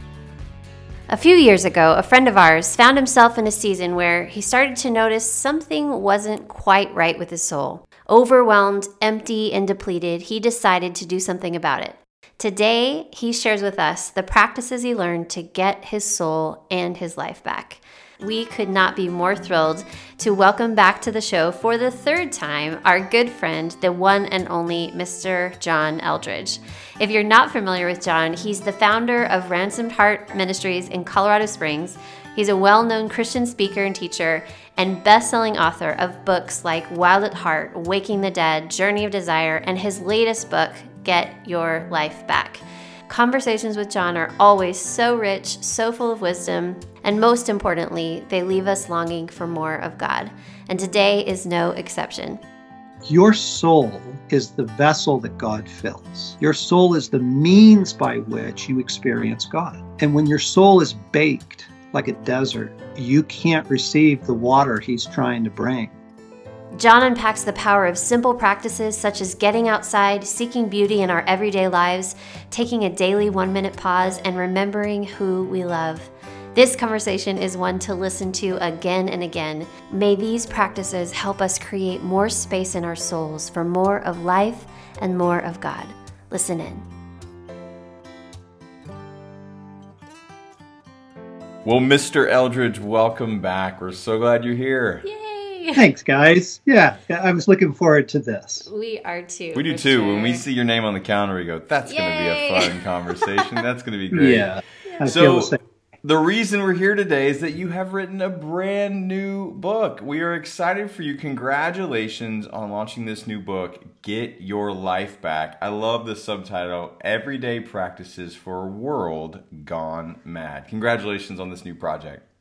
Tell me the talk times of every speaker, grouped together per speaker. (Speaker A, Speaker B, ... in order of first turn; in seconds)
Speaker A: 1.1-52.4, 66.8-86.8, 95.0-95.8, 98.7-100.4, 101.9-103.4, 104.9-105.2
Speaker B: 53.0-65.9, 95.8-98.7, 104.1-105.6
Speaker C: 91.7-95.0, 99.5-104.5, 105.0-122.2